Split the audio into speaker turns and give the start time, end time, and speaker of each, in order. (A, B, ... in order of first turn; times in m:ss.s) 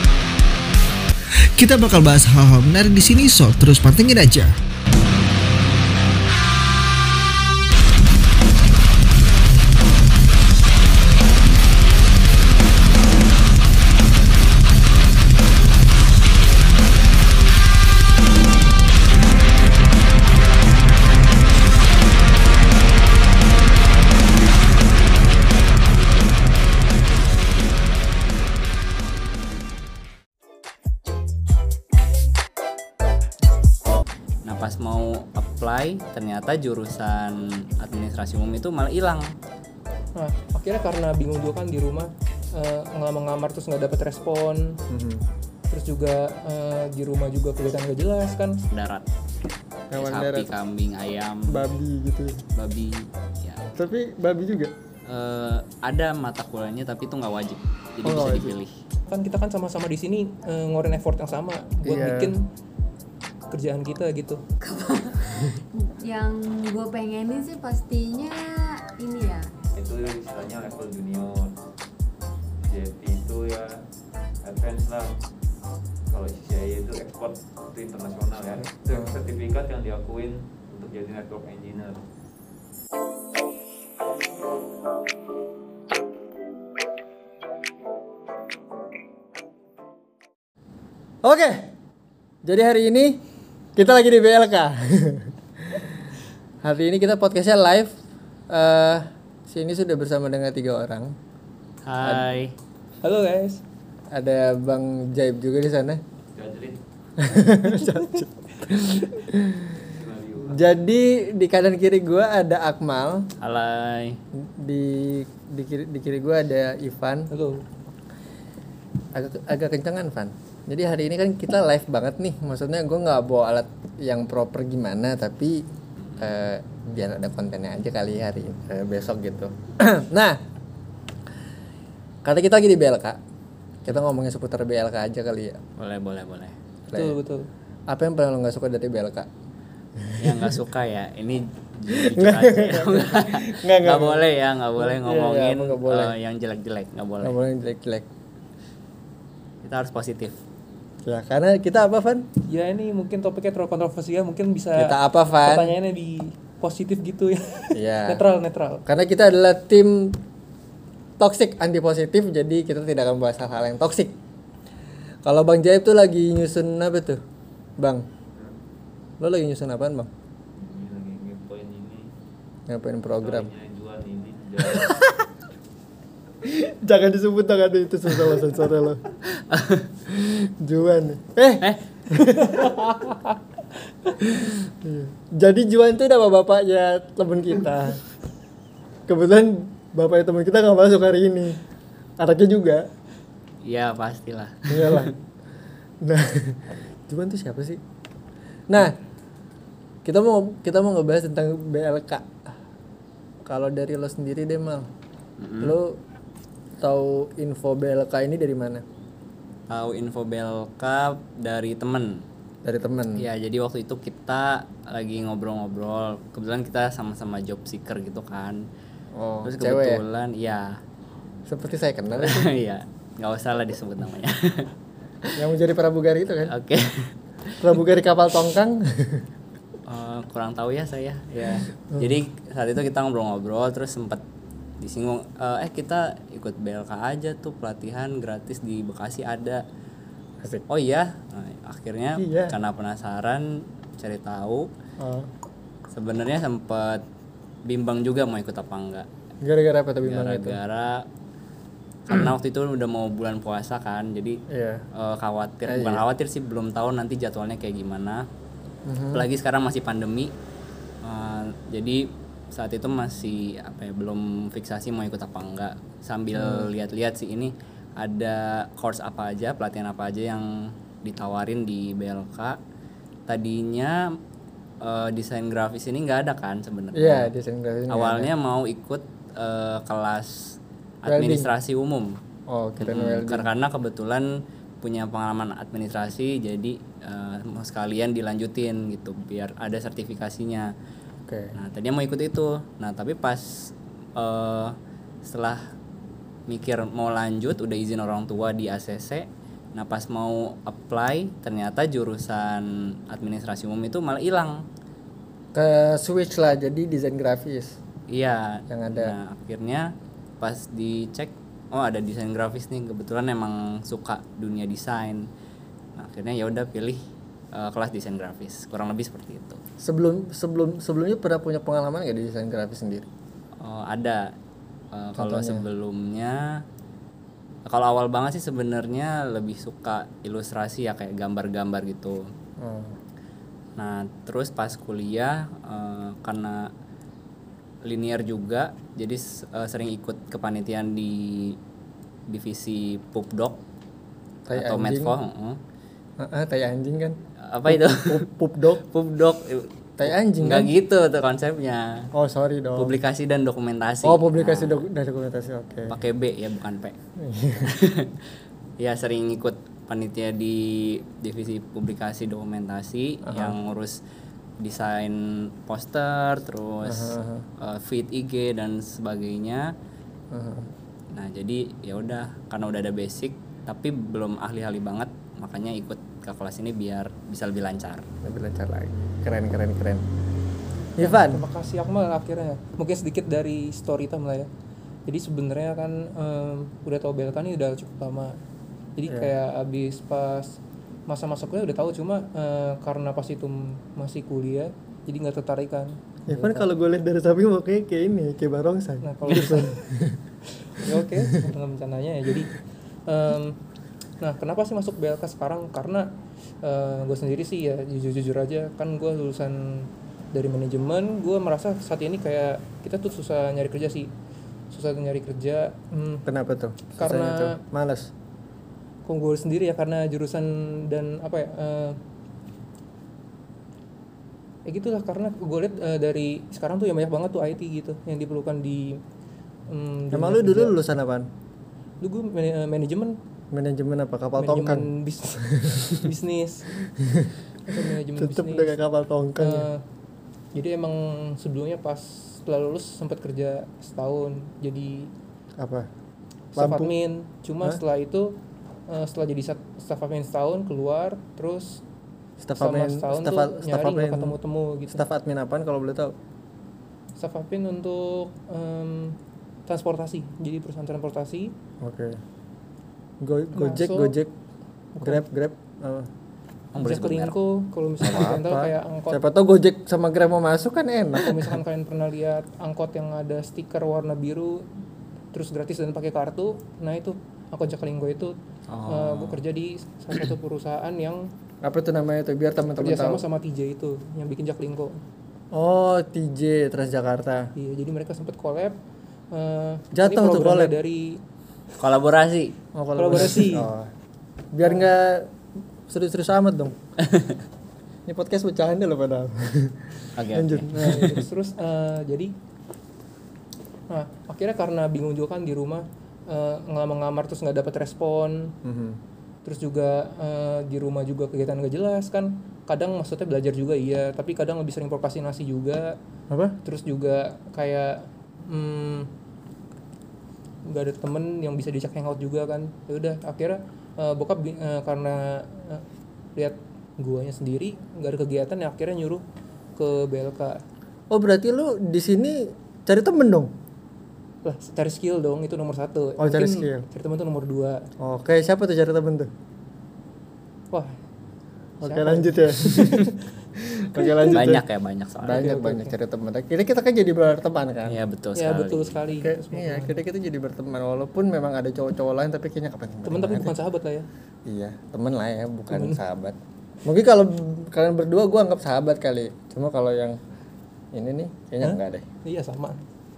0:01.6-0:04.6 A
0:34.4-0:39.3 B
0:40.2-0:44.8 C
0:44.9-0:45.3 D
0:45.7-0:48.6 C
0:48.7-0:49.1 B
0:49.9-0:50.5 D
0:50.0-0:51.6 B
0:51.5-0:52.5 D
0:52.6-0:53.6 B
0:53.8-0:54.7 D
0:55.1-0:58.8 B
0:58.0-0:58.6 D
0:59.1-1:02.4 C
1:01.8-1:02.4 D
1:03.5-1:04.4 C
1:04.6-1:09.5 E
1:09.8-1:11.5 F
1:12.6-1:13.8 F
1:14.4-1:15.1 F
1:16.1-1:22.0 F
1:18.9-1:19.2 D
1:31.2-1:31.7 D
1:32.4-1:33.2 D
1:33.8-1:35.9 D
1:36.6-1:38.0 D
1:38.5-1:41.2 D
1:41.8-1:42.5 B
1:43.0-1:43.6 C
1:44.1-1:46.0 D
1:46.4-1:46.8 F
1:47.2-1:49.9 D
1:49.9-1:50.6 F
1:50.5-1:53.3 D
1:53.4-1:54.2 B
1:54.3-1:57.3 D
1:57.3-1:57.6 C
1:59.1-2:05.7 D
2:06.2-2:10.4 D
2:12.2-2:13.2 D
2:13.8-2:15.6 D
2:15.8-2:16.5 B
2:16.9-2:17.2 D
2:16.9-2:17.5 C
2:17.9-2:19.3 D
2:20.0-2:20.5 D
2:20.2-2:27.4 B
2:21.9-2:24.2 D
2:24.8-2:26.1 D
2:27.2-2:28.1 D
2:29.6-2:30.4 B
2:31.0-2:32.3 D
2:32.5-2:38.8 C
2:34.8-2:35.7 D
2:37.7-2:38.2 D
2:38.9-2:40.2 D
2:41.2-2:44.2 D
2:45.2-2:47.2 D
2:49.2-2:50.1 D
2:50.6-2:52.1 F
2:52.7-2:53.5 D
2:53.2-2:55.1 F
2:56.4-2:59.0 D
2:59.4-2:59.9 B
3:00.1-3:03.3 D
3:04.2-3:08.0 D
3:09.1-3:11.6 D
3:12.2-3:12.8 D
3:13.6-3:15.1 B
3:14.7-3:15.1 D
3:16.0-3:17.8 D
3:18.7-3:19.0 D
3:20.0-3:22.5 D
3:23.4-3:24.9 D
3:25.4-3:25.8 B
3:25.6-3:26.0 D
3:26.8-3:28.8 D
3:29.7-3:32.2 B
3:32.6-3:33.3 D
3:33.2-3:38.6 B
3:39.1-3:40.0 D
3:39.4-3:40.8 B
3:41.5-3:42.5 D
3:42.1-3:44.7 B
3:45.4-3:46.5 D
3:46.5-3:47.8 B
3:47.6-3:49.3 D
3:49.9-3:54.2 B
3:51.9-3:52.2 D
3:54.8-3:59.6 B
4:00.7-4:04.7 B
4:02.2-4:02.6 D
4:05.0-4:05.3 D
4:05.9-4:07.0 B
4:07.6-4:09.1 B
4:09.4-4:10.6 D
4:10.0-4:11.1 B
4:12.1-4:14.4 B
4:14.5-4:14.8 D
4:14.9-4:18.3 B
4:15.7-4:16.0 D
4:18.9-4:19.2 D
4:19.1-4:20.3 B
4:21.0-4:32.6 B
4:26.4-4:26.7 D
4:33.3-4:34.2 B
4:34.8-4:37.3 B
4:36.9-4:38.3 D
4:37.9-4:42.2 B
4:41.1-4:41.5 D
4:42.5-4:43.5 D
4:42.8-4:50.7 B
4:51.3-4:51.6 D
4:51.6-4:55.6 B
4:56.5-5:04.7 B
5:05.5-5:07.8 D
5:08.1-5:15.3 B
5:08.7-5:09.2 D
5:16.0-5:17.0 B
5:17.5-5:19.6 B
5:19.8-5:23.1 D
5:23.6-5:24.4 B
5:24.9-5:26.6 B
5:25.2-5:25.7 D
5:27.7-5:32.3 B
5:32.6-5:33.0 D
5:33.8-5:36.7 B
5:37.8-5:41.6 B
5:42.3-5:43.6 B
5:44.5-5:45.2 D
5:44.5-5:45.6 B
5:46.2-5:48.8 D
5:47.4-5:48.2 B
5:48.8-5:52.1 B
5:50.0-5:50.7 D
5:52.1-5:52.9 D
5:52.8-5:54.8 B
5:54.0-5:56.0 D
5:55.9-5:57.0 B
5:57.2-5:57.7 D
5:57.6-5:58.3 B
5:58.8-6:04.0 B
6:03.3-6:03.6 D
6:04.6-6:09.7 B
6:06.8-6:07.4 D
6:10.3-6:10.7 D
6:11.1-6:18.1 B
6:18.2-6:20.1 D
6:21.0-6:21.4 D
6:21.0-6:24.5 C
6:25.1-6:28.4 C
6:29.0-6:36.7 C
6:36.3-6:40.2 D
6:39.0-6:39.8 C
6:40.7-6:42.6 C
6:43.1-6:43.6 C
6:44.2-6:54.1 C
6:54.7-6:56.2 C
6:56.2-6:58.1 D
6:57.0-6:57.6 C
6:59.0-7:02.0 C
7:04.7-7:09.0 C
7:09.7-7:10.8 C
7:10.1-7:11.3 D
7:12.0-7:13.2 C
7:13.5-7:14.9 D
7:14.4-7:16.7 C
7:15.5-7:15.8 D
7:17.0-7:19.7 D
7:17.7-7:18.8 C
7:19.4-7:19.8 C
7:20.6-7:25.1 C
7:25.6-7:25.9 D
7:26.5-7:28.4 C
7:26.6-7:26.9 D
7:28.9-7:31.8 C
7:32.4-7:34.4 D
7:32.6-7:35.0 C
7:34.9-7:36.2 D
7:37.2-7:41.5 C
7:41.8-7:42.2 D
7:43.2-7:44.3 D
7:43.5-7:44.2 C
7:45.0-7:46.1 D
7:46.7-7:47.3 B
7:46.8-7:49.2 C
7:48.0-7:51.6 D
7:51.2-7:54.7 C
7:55.3-7:58.4 C
7:58.7-7:59.4 B
7:58.9-8:01.3 C
8:01.6-8:03.2 D
8:02.8-8:05.0 C
8:05.5-8:07.5 D
8:07.6-8:08.8 C
8:09.3-8:11.2 C
8:09.9-8:10.8 D
8:11.8-8:12.6 B
8:12.8-8:13.9 D
8:13.0-8:13.7 C
8:14.5-8:15.4 D
8:15.9-8:16.8 D
8:17.0-8:17.4 B
8:18.1-8:21.2 D
8:20.2-8:21.2 B
8:20.8-8:22.3 C
8:23.9-8:28.5 C
8:28.6-8:29.0 D
8:29.4-8:36.0 C
8:36.3-8:36.6 D
8:36.6-8:39.1 C
8:40.7-8:45.8 C
8:46.4-8:49.2 C
8:49.8-8:50.6 C
8:51.1-8:53.5 D
8:54.4-8:57.8 C
8:56.2-8:56.8 D
8:58.0-8:59.3 D
9:00.7-9:01.0 C
9:01.8-9:03.0 D
9:01.8-9:03.2 C
9:03.6-9:04.6 D
9:04.0-9:04.3 C
9:04.2-9:05.6 B
9:05.2-9:08.0 D
9:05.3-9:05.9 C
9:07.9-9:09.0 B
9:08.4-9:10.0 C
9:09.2-9:13.6 D
9:13.0-9:14.1 C
9:14.5-9:20.2 D
9:15.7-9:16.0 C
9:20.9-9:22.1 D
9:21.6-9:22.8 C